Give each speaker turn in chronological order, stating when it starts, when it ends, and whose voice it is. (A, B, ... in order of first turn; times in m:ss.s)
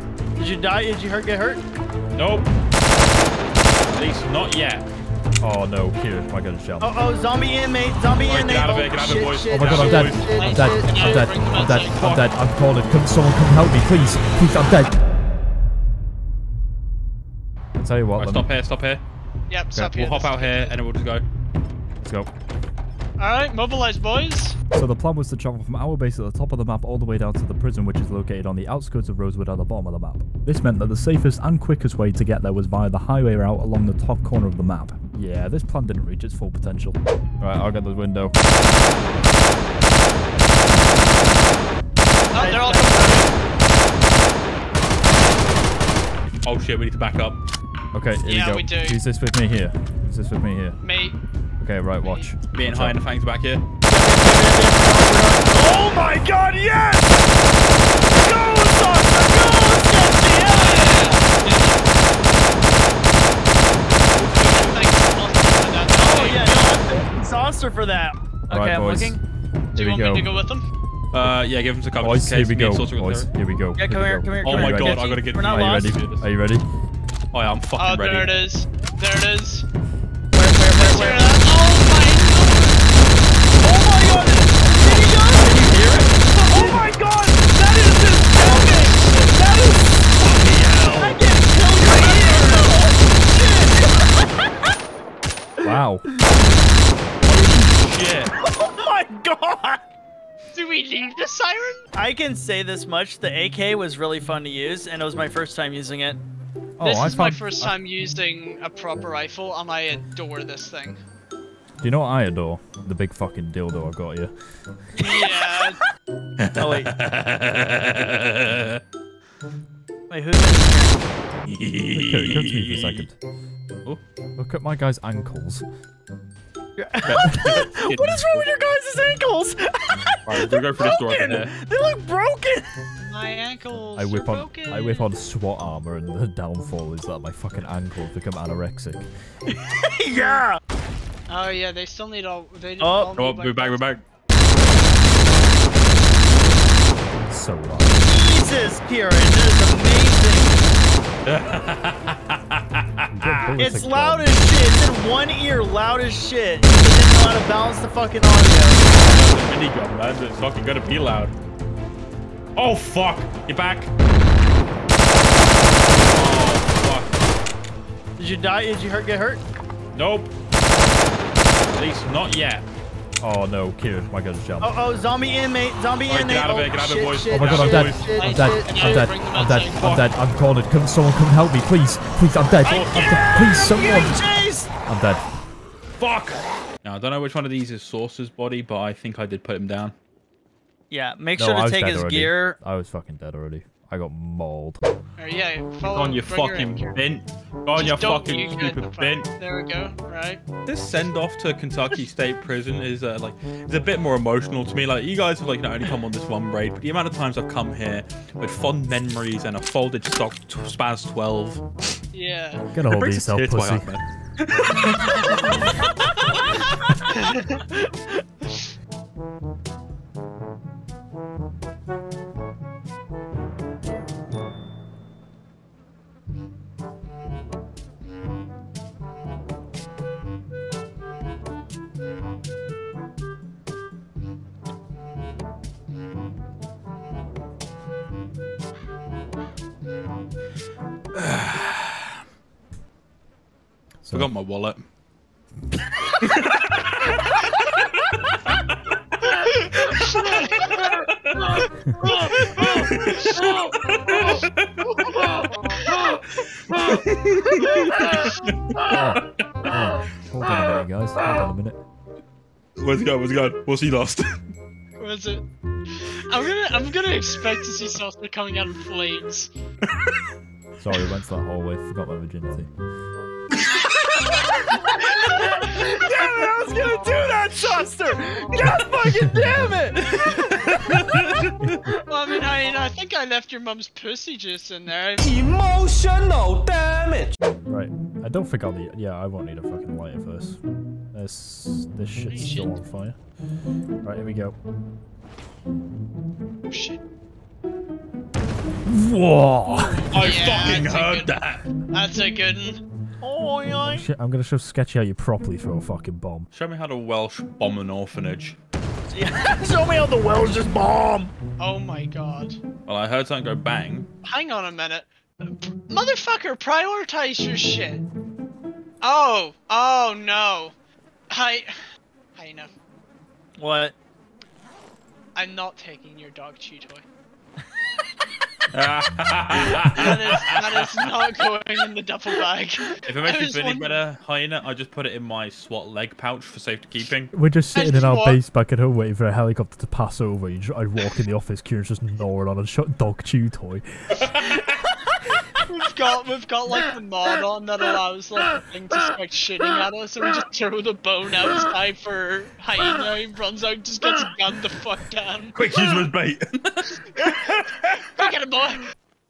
0:00.4-0:01.6 A
0:02.1-0:02.5 B
0:03.9-0:04.8 B
0:05.4-0:06.9 C
0:06.8-0:11.2 A
0:08.2-0:10.3 B
0:09.5-0:15.0 C
0:10.2-0:12.1 D
0:11.9-0:12.3 B
0:17.8-0:18.5 C
0:18.2-0:19.0 B
0:19.5-0:20.7 D
0:19.9-0:21.2 B
0:22.0-0:22.3 C
0:23.2-0:24.6 D
0:24.7-0:38.4 C
0:42.3-0:43.3 D
0:42.3-0:43.4 A
0:46.4-0:47.4 B
0:47.9-0:50.8 C
0:48.2-0:49.0 D
0:50.8-0:51.2 D
0:51.6-0:53.0 C
0:52.0-0:52.3 D
0:52.5-0:53.6 B
0:53.9-0:57.2 A
0:58.1-1:01.2 A
1:00.4-1:02.0 D
1:04.1-1:04.9 B
1:04.4-1:06.6 D
1:06.0-1:09.2 A
1:08.5-1:09.2 C
1:09.7-1:10.7 D
1:09.8-1:10.3 C
1:11.1-1:13.3 B
1:12.0-1:16.6 C
1:13.8-1:15.9 A
1:14.4-1:16.3 B
1:17.3-1:18.3 B
1:17.8-1:19.6 D
1:20.3-1:21.4 A
1:20.8-1:22.9 D
1:23.6-1:34.7 A
1:28.4-1:29.2 D
1:30.2-1:31.2 B
1:31.9-1:32.4 D
1:35.6-1:36.0 C
1:37.2-1:38.3 B
1:38.4-1:39.8 A
1:40.5-1:41.9 D
1:41.9-1:46.2 A
1:46.8-1:47.7 C
1:46.8-1:51.0 D
1:51.8-1:54.3 C
1:54.9-1:55.8 D
1:56.4-1:58.8 B
1:56.6-1:56.9 A
2:00.1-2:01.0 A
2:01.4-2:03.1 B
2:01.9-2:03.2 C
2:04.4-2:05.6 C
2:06.8-2:12.7 A
2:07.0-2:08.4 B
2:10.2-2:11.5 B
2:13.0-2:15.1 D
2:14.0-2:19.0 C
2:19.5-2:20.6 A
2:21.3-2:23.8 D
2:22.8-2:23.1 A
2:23.2-2:24.0 B
2:27.3-2:28.1 C
2:28.0-2:30.7 A
2:31.2-2:33.6 B
2:33.1-2:34.4 C
2:33.6-2:38.8 A
2:38.9-2:41.3 B
2:42.6-2:43.9 B
2:46.1-2:47.2 B
2:48.2-2:49.4 A
2:49.9-2:50.3 B
2:51.7-2:52.6 B
2:53.2-2:55.0 C
2:54.6-2:59.0 A
2:56.0-2:58.1 B
2:57.3-3:04.2 C
2:57.6-3:00.0 D
2:59.8-3:00.1 B
3:02.6-3:03.4 B
3:02.7-3:04.7 A
3:04.8-3:05.2 C
3:06.0-3:09.9 B
3:10.9-3:12.6 A
3:11.4-3:14.8 C
3:15.2-3:17.0 D
3:15.8-3:19.3 B
3:17.7-3:20.4 D
3:20.6-3:31.6 B
3:32.1-3:32.7 D
3:32.7-3:33.9 C
3:32.8-3:35.7 B
3:37.1-3:37.9 D
4:01.1-4:02.1 B
4:04.0-4:04.3 C
4:04.1-4:04.8 B
4:06.2-4:07.9 B
4:09.4-4:10.9 D
4:10.8-4:11.6 B
4:11.8-4:12.3 C
4:12.0-4:12.9 D
4:12.3-4:15.1 B
4:16.5-4:19.2 B
4:18.8-4:21.8 C
4:22.8-4:24.4 B
4:25.0-4:25.4 D
4:26.0-4:29.5 D
4:30.8-4:32.7 C
4:34.7-4:40.3 A
4:35.4-4:35.8 D
4:39.2-4:39.7 C
4:40.2-4:41.5 B
4:41.6-4:42.0 C
4:42.0-4:45.5 D
4:45.2-4:47.4 E
4:47.4-4:50.6 C
4:51.1-4:53.2 C
4:52.2-4:52.8 D
4:54.0-4:54.5 C
4:56.7-4:57.0 D
4:58.8-5:00.1 C
5:00.0-5:01.3 D
5:00.0-5:01.6 B
5:01.9-5:02.8 D
5:03.2-5:04.1 A
5:03.9-5:06.5 C
5:06.5-5:08.6 B
5:09.1-5:11.3 A
5:11.6-5:12.6 D
5:12.8-5:14.1 B
5:14.2-5:18.0 D
5:19.0-5:20.7 D
5:21.3-5:21.8 D
5:22.3-5:22.7 D
5:23.6-5:23.9 A
5:25.3-5:27.0 D
5:28.7-5:30.6 B
5:29.9-5:34.0 D
5:33.0-5:37.3 B
5:37.3-5:44.5 C
5:37.7-5:38.4 D
5:44.2-5:44.6 B
5:45.6-5:55.6 D
5:55.5-5:58.0 B
5:58.0-5:58.9 D